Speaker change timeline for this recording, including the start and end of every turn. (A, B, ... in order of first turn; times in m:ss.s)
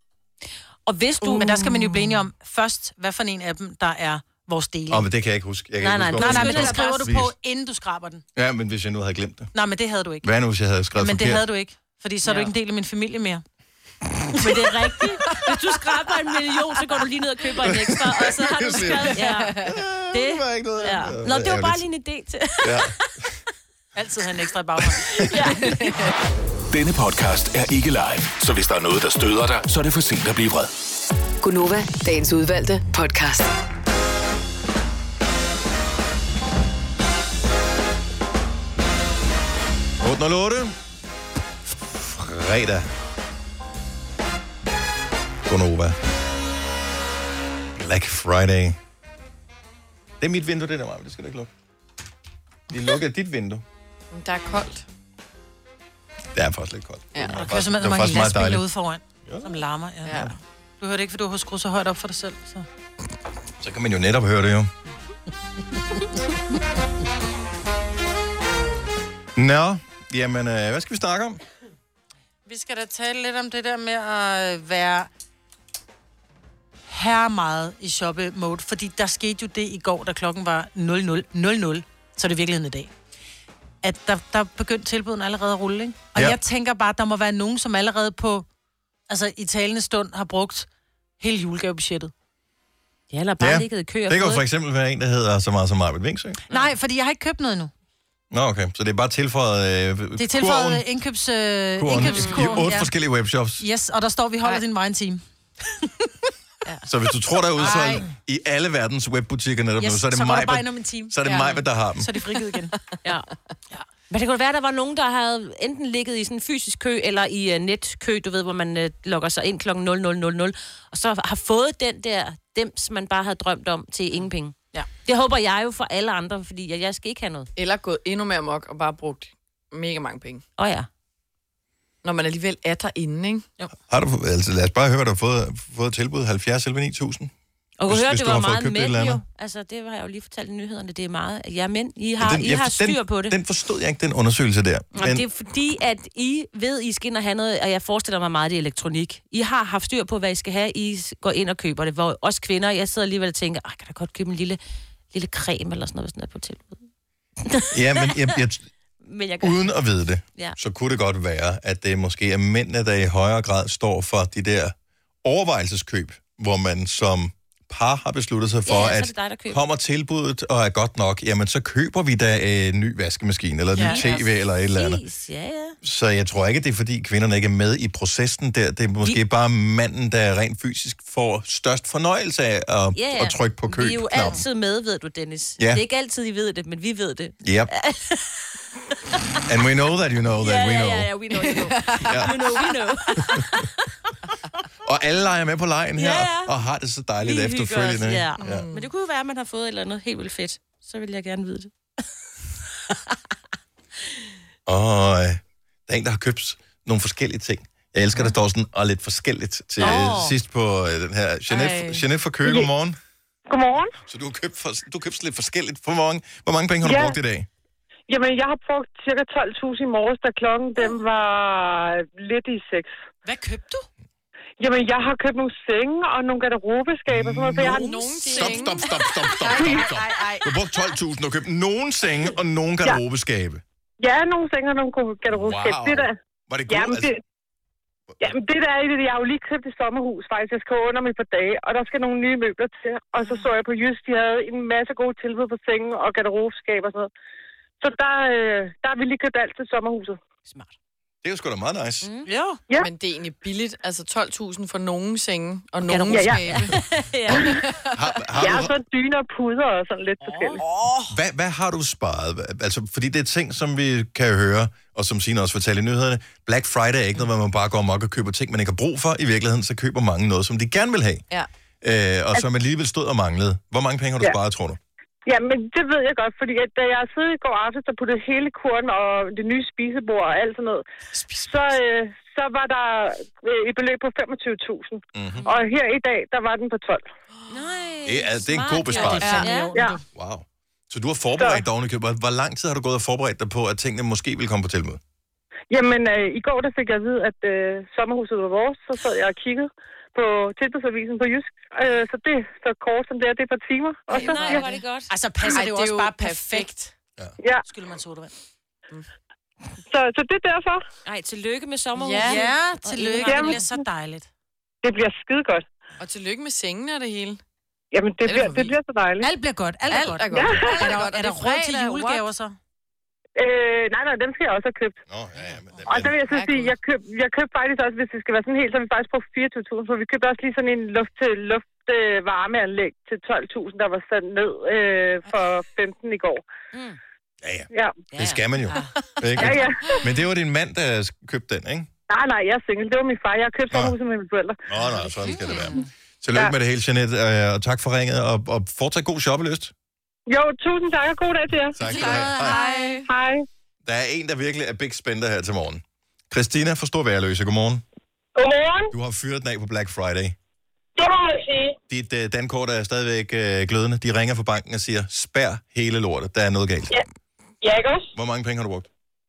0:00.8-0:02.2 A
0:01.3-0:05.0 B
0:04.9-0:07.3 C
0:05.8-0:07.0 A
0:06.2-0:08.2 B
0:08.4-0:09.5 C
0:09.5-0:10.3 B
0:10.2-0:11.4 C
0:11.0-0:13.4 B
0:14.4-0:23.0 A
0:14.4-0:15.1 B
0:17.6-0:21.8 C
0:19.2-0:19.7 D
0:22.6-0:22.9 C
0:23.9-0:25.1 B
0:25.1-0:25.8 A
0:25.7-0:26.1 D
0:26.7-0:30.7 E
0:31.4-0:33.5 F
0:40.0-0:40.7 C
0:41.8-0:42.9 C
0:45.4-0:46.0 C
0:47.8-0:48.8 C
0:50.2-0:51.5 C
0:52.7-0:53.6 C
0:54.1-0:54.8 D
0:56.3-0:58.6 C
0:57.1-0:57.4 D
0:57.4-1:00.2 B
1:00.0-1:00.3 D
1:00.8-1:02.6 B
1:03.6-1:04.7 C
1:09.4-1:11.4 C
1:12.4-1:15.1 B
1:16.9-1:22.9 B
1:23.8-1:28.4 B
1:29.1-1:30.7 B
1:31.2-1:32.1 B
1:33.1-1:34.4 A
1:33.4-1:36.4 C
1:36.5-1:37.7 B
1:38.3-1:40.8 C
1:40.2-1:42.9 B
1:41.8-1:43.6 C
1:41.9-1:42.7 A
1:43.6-1:45.2 B
1:46.9-1:52.1 C
1:47.6-1:48.0 B
1:49.8-1:51.2 B
1:51.2-1:51.6 D
1:52.0-1:52.7 B
1:54.1-2:07.5 A
2:07.6-2:10.4 D
2:10.6-2:10.9 A
2:12.0-2:13.5 D
2:13.9-2:17.3 C
2:17.8-2:23.4 A
2:17.9-2:19.2 C
2:22.2-2:25.2 C
2:24.9-2:34.6 A
2:35.1-2:36.8 A
2:37.5-2:38.4 A
2:37.7-2:38.6 C
2:39.0-2:39.7 A
2:39.4-2:55.0 C
2:48.6-2:49.6 A
2:53.7-2:54.1 B
2:53.8-2:55.8 A
2:55.8-3:04.4 C
3:02.9-3:08.4 A
3:05.6-3:05.8 C
3:07.4-3:07.7 C
3:09.5-3:11.1 C
3:10.4-3:13.9 A
3:11.4-3:12.4 D
3:12.0-3:12.4 C
3:14.8-3:18.7 C
3:15.9-3:16.5 A
3:17.2-3:21.7 A
3:18.4-3:18.9 D
3:24.6-3:33.0 C
3:29.8-3:30.3 A
3:31.5-3:31.9 D
3:33.5-3:33.9 G
3:34.0-3:37.5 C
3:36.8-3:37.2 G
3:38.1-3:42.9 G
3:43.2-3:43.9 B
3:44.6-3:48.1 G
3:47.1-3:53.6 C
3:47.6-3:49.0 D
3:48.2-3:48.9 A
3:49.4-3:50.5 B
3:54.0-3:56.1 G
3:55.3-3:57.1 C
3:56.7-3:57.2 G
3:58.2-4:07.1 G
4:07.8-4:10.2 G
4:10.5-4:10.7 A
4:11.2-4:12.1 C
4:12.0-4:12.3 A
4:12.3-4:12.6 B
4:12.8-4:16.8 D
4:15.8-4:17.6 A
4:16.1-4:16.5 G
4:17.3-4:18.7 C
4:17.3-4:17.9 D
4:18.4-4:20.6 G
4:20.2-4:20.6 A
4:20.6-4:21.1 D
4:21.1-4:31.2 C
4:31.8-4:34.8 C
4:35.2-4:47.0 G
4:45.1-4:45.4 C
4:47.5-4:49.8 A
4:48.0-4:49.4 C
4:48.9-4:50.0 B
4:49.2-4:49.5 D
4:50.1-4:55.0 C
4:51.4-4:51.6 G
4:55.7-5:04.7 G
5:04.1-5:05.1 A
5:04.2-5:04.8 D
5:05.1-5:06.7 B
5:05.4-5:06.9 D
5:07.7-5:08.3 B
5:09.9-5:10.8 G
5:11.0-5:13.8 A
5:12.0-5:12.5 D
5:12.2-5:14.3 B
5:13.3-5:13.5 G
5:14.8-5:15.6 G
5:16.0-5:17.4 D
5:17.9-5:19.3 G
5:18.2-5:18.8 D
5:19.2-5:22.5 B
5:19.9-5:22.2 D
5:20.3-5:20.8 G
5:23.4-5:25.0 G
5:25.1-5:26.2 C
5:25.9-5:36.4 G
5:26.3-5:26.7 D
5:36.7-5:37.0 A
5:37.4-5:41.9 C
5:37.7-5:38.0 G
5:38.1-5:39.4 A
5:39.4-5:40.0 G
5:42.1-5:44.6 G
5:43.7-5:44.0 C
5:44.7-5:49.7 C
5:44.9-5:45.9 A
5:50.3-5:51.8 G
5:51.7-5:52.6 C
5:51.8-5:53.1 D
5:53.0-5:53.4 G
5:53.8-5:57.8 C
5:58.3-5:58.9 G
5:58.9-6:00.4 C
6:01.0-6:01.8 G
6:01.9-6:06.9 C
6:07.6-6:08.1 G
6:08.1-6:08.9 C